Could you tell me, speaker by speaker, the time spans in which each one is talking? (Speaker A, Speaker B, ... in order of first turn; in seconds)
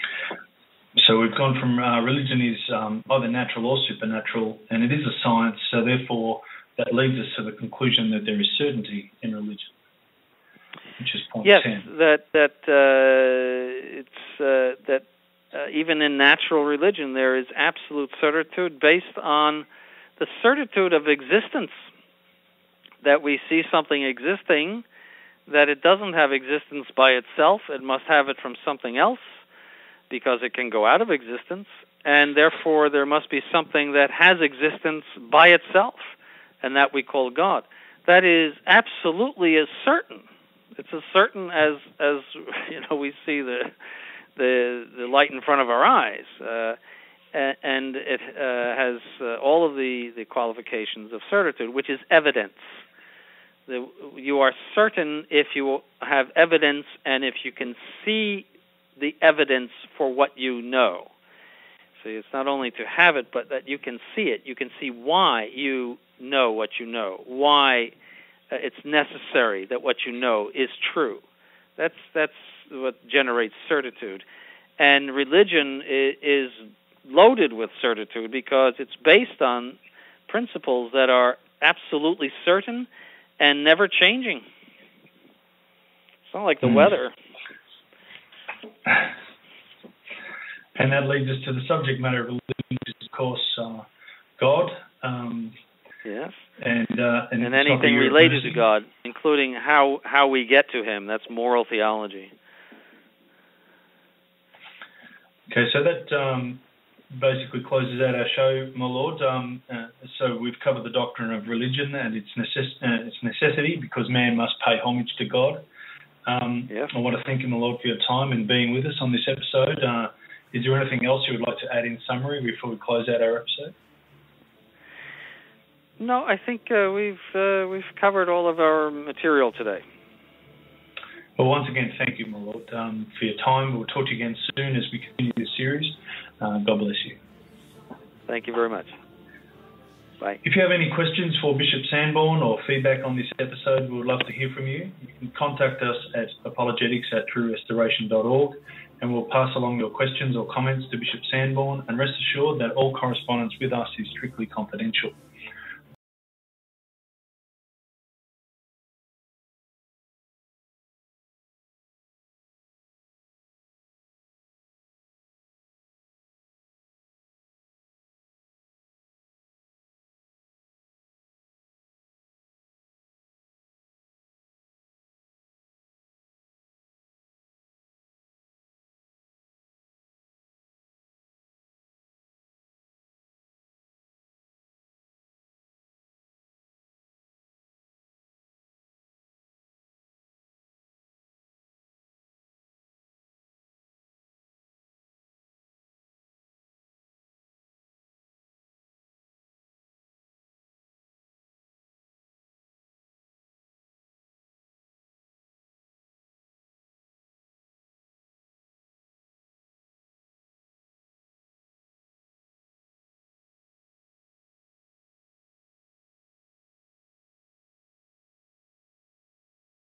Speaker A: 0.9-9.7, 11.0-11.8, 88.8-89.1, 90.8-93.9, 94.4-95.5, 96.6-98.6, 105.5-115.6, 116.2-123.7, 131.4-137.2, 140.4-155.1
Speaker B: 11.4-19.6, 20.2-21.8, 23.0-24.8, 25.5-29.4, 30.1-40.2, 40.8-43.7, 44.4-46.8, 47.3-52.7, 53.7-61.1, 62.0-67.9, 68.5-71.2, 71.8-74.2, 74.8-79.8, 80.3-82.9, 83.4-84.4, 86.3-87.1, 96.0-96.4, 97.4-102.3, 126.0-129.8, 138.3-138.9